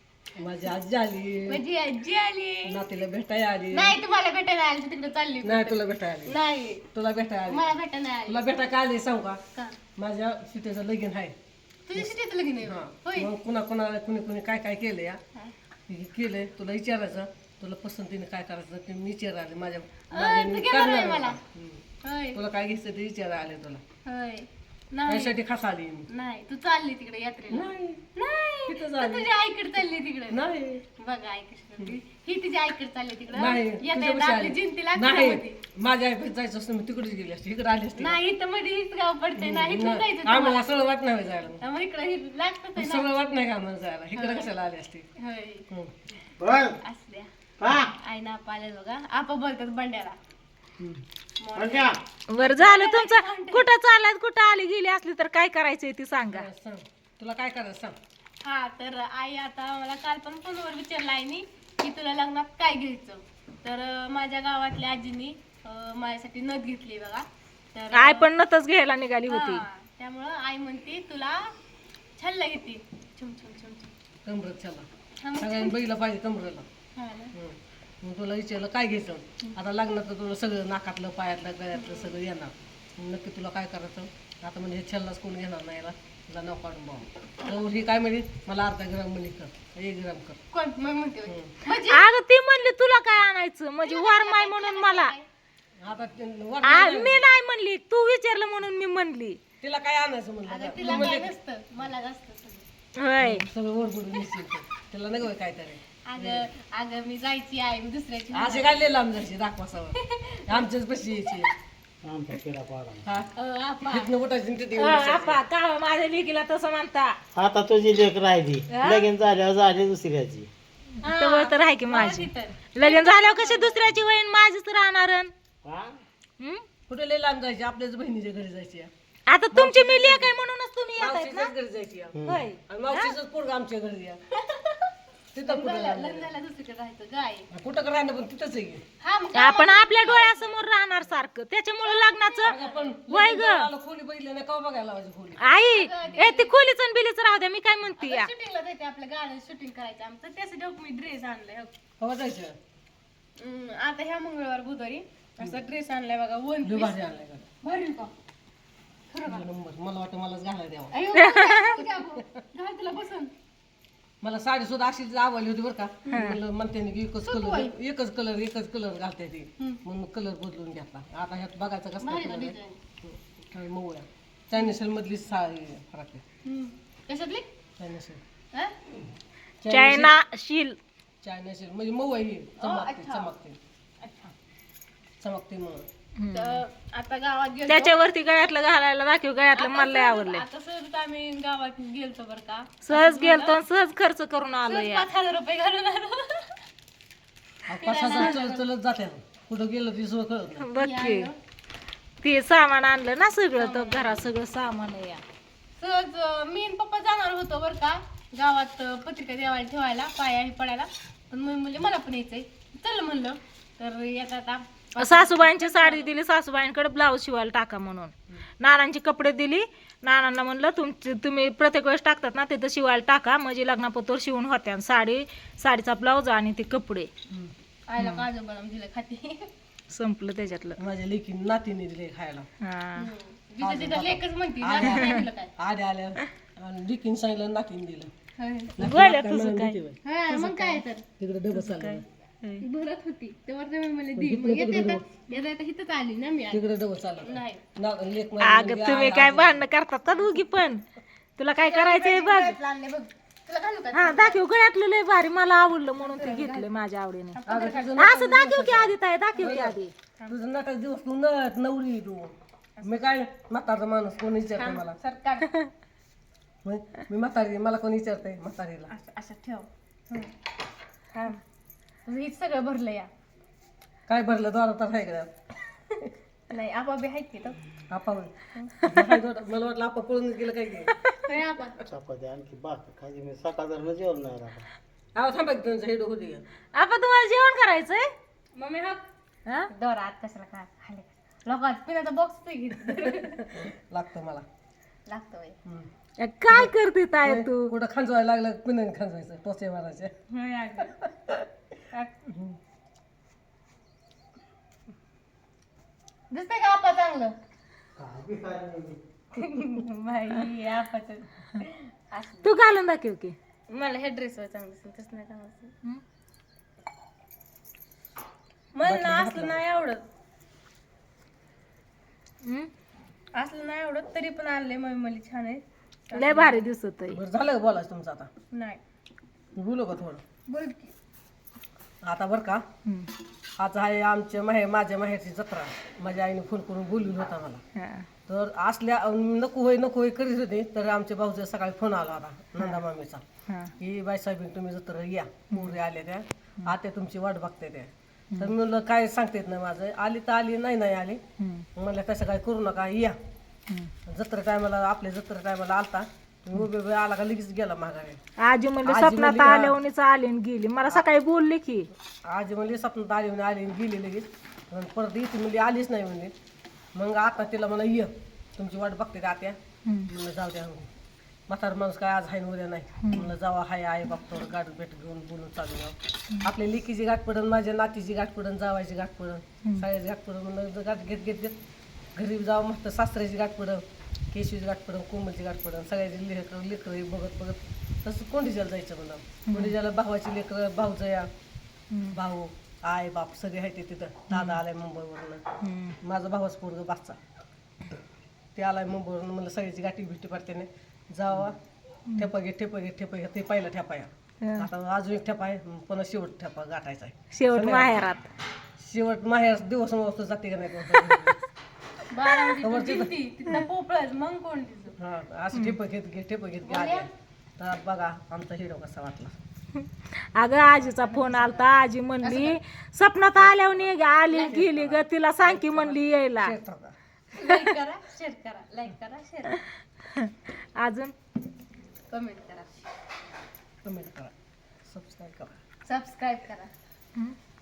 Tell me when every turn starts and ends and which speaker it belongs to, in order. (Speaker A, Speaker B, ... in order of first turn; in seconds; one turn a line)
Speaker A: 0.4-1.6
Speaker B: 1.5-2.8
Speaker A: 2.7-4.0
Speaker B: 3.7-6.9
Speaker A: 5.4-6.3
Speaker A: 6.9-7.7
Speaker B: 7.5-8.5
Speaker A: 8.3-9.4
Speaker A: 9.9-11.3
Speaker B: 11.9-13.3
Speaker A: 12.6-15.2
Speaker A: 15.9-21.8
Speaker B: 20.1-21.4
Speaker B: 22.0-22.4
Speaker A: 22.3-23.8
Speaker B: 24.0-25.3
Speaker A: 25.1-26.1
Speaker B: 26.1-35.6
Speaker A: 27.5-28.1
Speaker A: 28.7-29.3
Speaker A: 30.3-30.8
Speaker A: 33.3-38.2
Speaker B: 38.0-40.6
Speaker A: 39.3-41.6
Speaker B: 41.6-43.1
Speaker A: 42.8-45.1
Speaker B: 44.1-44.5
Speaker B: 45.2-45.7
Speaker C: 46.4-46.8
Speaker B: 46.8-50.2
Speaker C: 47.6-47.9
Speaker B: 51.4-53.7
Speaker C: 51.5-52.0
Speaker D: 52.3-56.5
Speaker A: 56.3-57.9
Speaker B: 58.4-68.3
Speaker D: 67.9-69.6
Speaker B: 69.3-71.5
Speaker B: 72.2-73.9
Speaker A: 74.2-76.7
Speaker B: 75.2-75.8
Speaker B: 76.9-77.3
Speaker A: 77.3-90.4
Speaker B: 81.8-82.1
Speaker B: 90.5-92.0
Speaker A: 91.3-91.5
Speaker D: 91.7-95.1
Speaker B: 93.8-95.3
Speaker A: 95.8-97.2
Speaker D: 96.6-99.4
Speaker A: 99.6-101.3
Speaker B: 100.5-102.7
Speaker D: 103.0-103.4
Speaker A: 103.2-106.5
Speaker B: 106.0-108.9
Speaker A: 108.3-111.5
Speaker B: 110.0-110.6
Speaker C: 112.0-113.0
Speaker B: 113.3-114.1
Speaker A: 113.9-115.4
Speaker D: 114.8-117.2
Speaker C: 117.3-120.5
Speaker B: 121.0-123.8
Speaker D: 121.0-125.3
Speaker C: 125.6-126.0
Speaker D: 126.4-126.6
Speaker A: 126.9-128.9
Speaker D: 129.3-131.5
Speaker A: 129.5-130.3
Speaker A: 131.0-134.2
Speaker C: 132.1-132.4
Speaker D: 132.3-133.1
Speaker B: 134.4-134.9
Speaker A: 135.3-136.3
Speaker B: 135.4-137.5
Speaker A: 137.5-138.8
Speaker B: 139.0-140.5
Speaker D: 139.3-142.6
Speaker B: 141.8-142.9
Speaker A: 142.4-145.4
Speaker D: 143.1-143.7
Speaker D: 145.4-148.3
Speaker B: 145.7-146.5
Speaker B: 147.9-151.7
Speaker A: 152.0-152.5
Speaker B: 153.4-156.9
Speaker A: 156.6-157.5
Speaker B: 157.6-158.1
Speaker B: 159.1-159.4
Speaker A: 159.2-160.9
Speaker B: 160.9-163.3
Speaker D: 161.2-161.8
Speaker A: 164.2-176.2
Speaker D: 166.1-166.4
Speaker B: 167.2-167.7
Speaker B: 172.0-172.8
Speaker B: 176.4-177.5
Speaker A: 177.8-178.2
Speaker A: 179.6-180.2
Speaker D: 179.7-180.8
Speaker A: 181.2-183.6
Speaker B: 182.6-183.3
Speaker B: 184.0-184.3
Speaker A: 185.2-185.9
Speaker D: 186.2-186.6
Speaker B: 186.3-188.0
Speaker D: 187.7-190.4
Speaker B: 189.5-193.6
Speaker D: 192.8-195.1
Speaker B: 194.7-196.6
Speaker A: 197.7-200.7
Speaker B: 197.8-198.6
Speaker D: 200.6-201.3
Speaker B: 200.8-201.3
Speaker D: 202.2-205.2
Speaker B: 203.6-204.2
Speaker B: 205.8-216.1
Speaker D: 215.0-227.1
Speaker B: 227.9-229.5
Speaker D: 228.0-228.2
Speaker D: 229.9-230.8
Speaker A: 230.8-232.5
Speaker D: 232.6-233.1
Speaker B: 233.0-235.5
Speaker A: 233.6-238.1
Speaker D: 234.9-235.2
Speaker B: 238.4-238.7
Speaker A: 238.8-240.0
Speaker D: 238.8-239.8
Speaker B: 240.0-241.0
Speaker D: 240.3-240.8
Speaker A: 241.2-242.0
Speaker D: 241.5-242.6
Speaker B: 242.6-246.6
Speaker A: 244.1-245.1
Speaker A: 246.5-249.6
Speaker B: 247.2-247.6
Speaker D: 248.4-250.8
Speaker B: 250.1-250.4
Speaker D: 251.4-252.6
Speaker B: 251.6-254.4
Speaker D: 253.9-257.4
Speaker B: 256.0-256.7
Speaker B: 257.3-258.1
Speaker A: 257.4-262.3
Speaker D: 258.0-259.9
Speaker A: 262.8-264.9
Speaker B: 264.6-265.6
Speaker A: 266.6-268.9
Speaker B: 268.9-270.3
Speaker B: 271.1-271.4
Speaker B: 272.0-273.1
Speaker A: 274.1-275.3
Speaker B: 276.5-277.6
Speaker A: 277.9-280.9
Speaker B: 278.5-278.8
Speaker B: 281.2-281.8
Speaker C: 281.9-284.7
Speaker A: 285.1-286.4
Speaker D: 286.7-288.1
Speaker B: 288.5-289.0
Speaker B: 289.7-293.4
Speaker A: 293.1-294.4
Speaker B: 295.1-295.6
Speaker D: 296.2-297.7
Speaker A: 297.2-300.1
Speaker B: 300.3-301.0
Speaker A: 302.3-302.6
Speaker B: 306.3-307.4
Speaker C: 307.9-309.0
Speaker B: 309.3-312.6
Speaker D: 312.4-313.3
Speaker B: 313.7-315.7
Speaker B: 318.7-320.0
Speaker A: 318.8-319.6
Speaker D: 322.4-322.7
Speaker B: 323.3-326.6
Speaker D: 326.1-327.2
Speaker A: 327.1-328.3
Speaker B: 328.5-328.8
Speaker A: 329.5-330.2
Speaker B: 330.5-330.9
Speaker A: 332.0-332.6
Speaker D: 332.9-333.1
Speaker A: 333.6-337.6
Speaker D: 337.8-338.1
Speaker A: 338.3-343.2
Speaker A: 343.8-351.2
Speaker D: 345.5-345.8
Speaker D: 351.4-351.6
Speaker A: 351.8-353.1
Speaker A: 354.1-358.2
Speaker D: 358.4-361.9
Speaker A: 358.8-359.8
Speaker A: 362.3-366.3
Speaker A: 366.9-370.9
Speaker A: 371.5-381.6
Speaker D: 373.0-373.3
Speaker A: 382.1-391.3
Speaker D: 389.5-389.7
Speaker D: 391.9-392.1
Speaker A: 392.1-395.4
Speaker D: 394.3-394.6
Speaker D: 395.6-395.9
Speaker A: 396.0-397.2
Speaker A: 398.6-401.6
Speaker A: 402.1-408.0
Speaker D: 404.4-404.7
Speaker D: 407.3-408.3
Speaker A: 408.8-411.4
Speaker D: 410.9-411.3
Speaker B: 412.1-414.9
Speaker A: 412.6-413.1
Speaker A: 415.0-419.3
Speaker B: 416.6-417.1
Speaker D: 419.8-426.5
Speaker B: 420.9-421.6
Speaker B: 422.2-422.6
Speaker A: 423.4-426.9
Speaker B: 424.3-424.6
Speaker B: 427.3-429.6
Speaker D: 430.1-431.1
Speaker B: 432.1-432.9
Speaker A: 433.8-434.3
Speaker A: 434.9-435.6
Speaker B: 435.8-436.7